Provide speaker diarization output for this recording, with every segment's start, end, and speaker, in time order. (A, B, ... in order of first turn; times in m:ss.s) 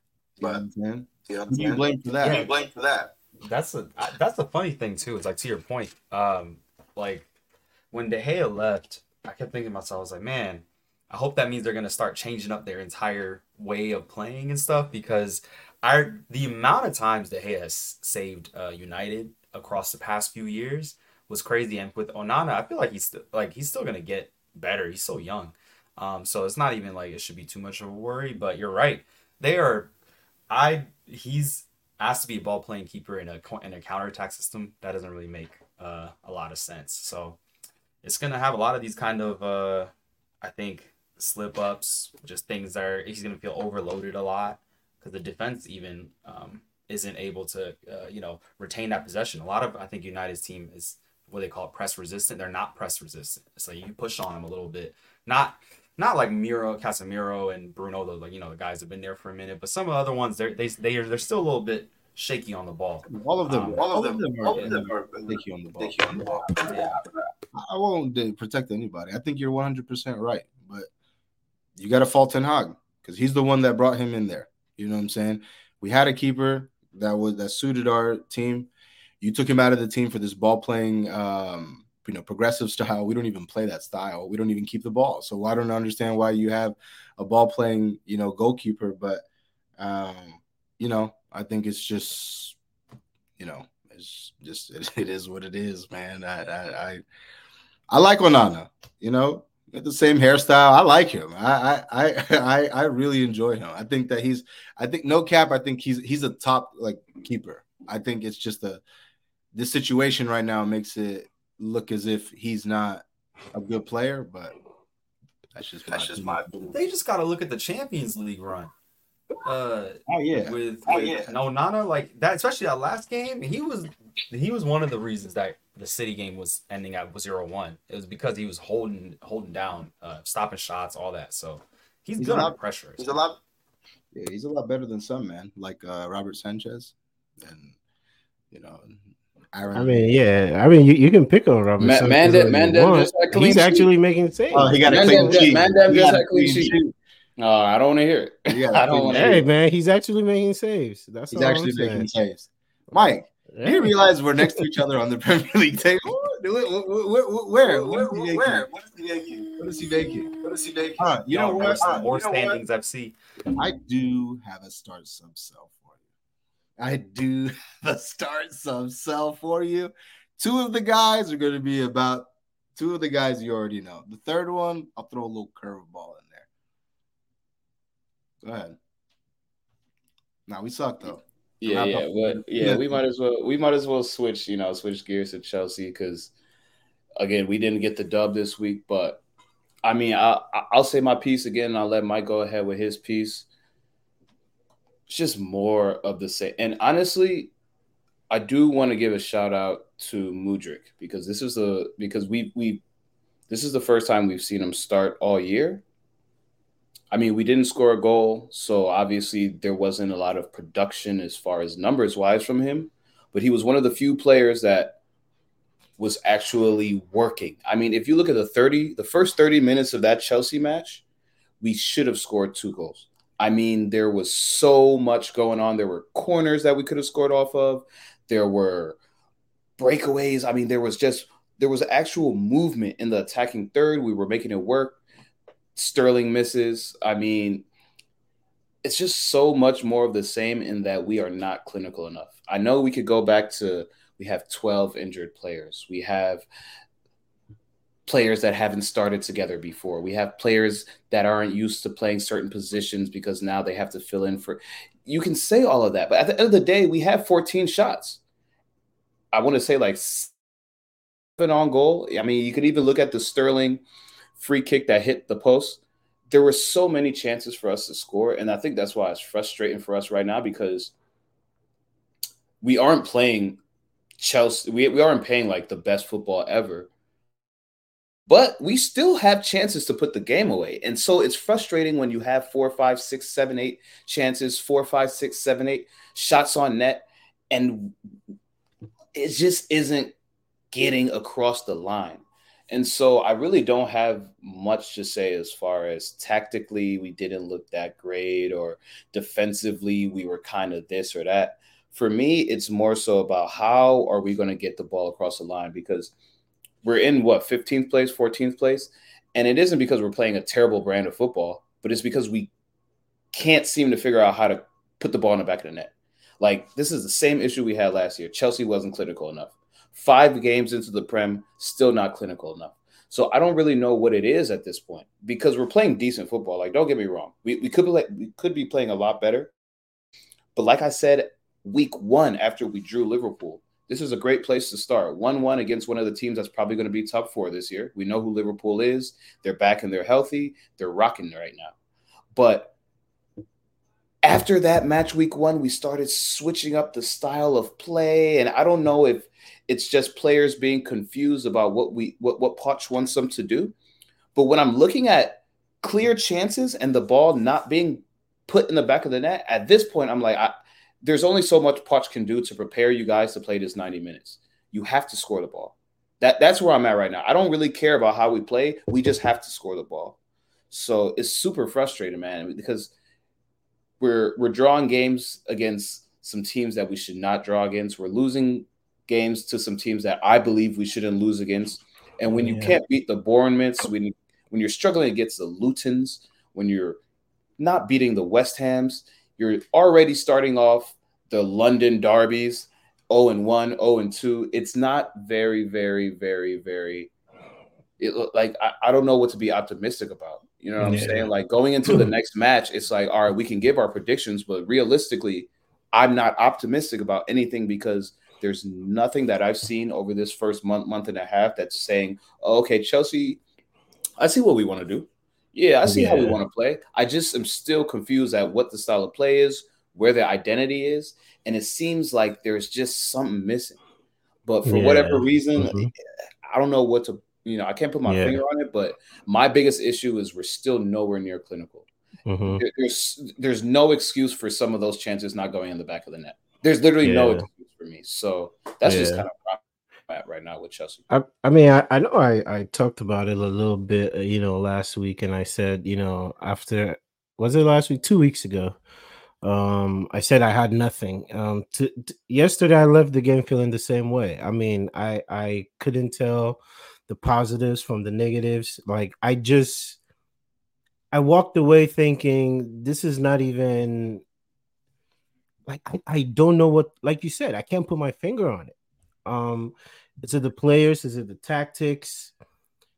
0:00.4-0:02.4 A
0:01.3-0:03.2 B
0:02.2-0:02.5 C
0:03.4-0:07.3 C
0:07.9-0:29.9 C
0:30.5-0:37.4 C
0:38.0-1:03.8 C
1:03.1-1:06.3 A
1:03.5-1:07.1 B
1:04.5-1:04.8 C
1:06.6-1:07.0 C
1:07.5-1:10.9 A
1:11.8-1:18.7 A
1:19.2-1:29.2 A
1:29.8-1:32.6 A
1:33.4-1:37.0 A
1:37.9-1:48.8 A
1:49.5-1:54.5 A
1:55.5-1:56.5 A
1:55.9-1:56.8 B
1:56.7-1:58.7 C
1:59.4-2:13.1 C
2:00.1-2:00.5 A
2:00.9-2:01.3 B
2:12.2-2:12.6 A
2:13.0-2:13.4 B
2:14.1-2:17.8 A
2:18.5-2:19.0 A
2:19.5-2:20.1 A
2:19.7-2:25.4 D
2:21.8-2:23.9 E
2:24.5-2:26.9 A
2:24.8-2:26.8 E
2:27.4-2:29.4 E
2:28.5-2:29.5 A
2:29.1-2:32.1 D
2:31.3-2:38.7 A
2:33.5-2:33.9 D
2:37.6-2:39.7 B
2:39.6-2:40.3 A
2:40.3-2:41.2 B
2:41.0-2:42.5 A
2:41.3-2:43.1 C
2:41.8-2:42.5 B
2:43.6-2:46.0 A
2:46.8-2:56.5 A
2:58.4-2:58.8 A
3:00.5-3:03.0 A
3:01.6-3:06.3 E
3:07.2-3:09.2 E
3:09.8-3:13.5 E
3:15.1-3:17.5 E
3:18.3-3:22.8 E
3:23.5-3:25.8 E
3:27.1-3:35.0 E
3:36.0-3:41.0 E
3:41.6-3:49.0 E
3:49.8-3:55.0 E
3:55.7-3:57.7 E
3:58.8-4:06.4 E
4:08.0-4:18.2 E
4:19.3-4:20.3 E
4:21.4-4:23.8 E
4:24.4-4:30.9 E
4:32.6-4:33.6 E
4:34.2-4:36.9 E
4:38.3-4:47.9 E
4:49.1-4:50.2 E
4:50.7-5:06.1 E
5:06.8-5:12.5 E
5:13.3-5:29.5 E
5:30.5-5:41.7 E
5:42.3-5:42.7 E
5:44.2-5:53.7 E
5:54.3-6:10.2 E
6:10.7-6:12.9 E
6:14.0-6:27.0 E
6:22.3-6:22.7 D
6:27.6-6:37.1 E
6:38.0-6:53.4 E
6:40.8-6:41.3 D
6:54.2-7:03.8 E
6:55.8-6:56.4 D
7:04.4-7:05.9 E
7:04.6-7:05.9 D
7:06.5-7:11.9 E
7:08.1-7:08.4 D
7:12.2-7:12.6 D
7:12.5-7:21.0 E
7:17.0-7:17.4 D
7:18.8-7:19.2 D
7:21.1-7:28.8 D
7:29.4-7:40.0 D
7:41.1-7:44.2 D
7:45.7-7:48.7 D
7:49.2-7:52.3 D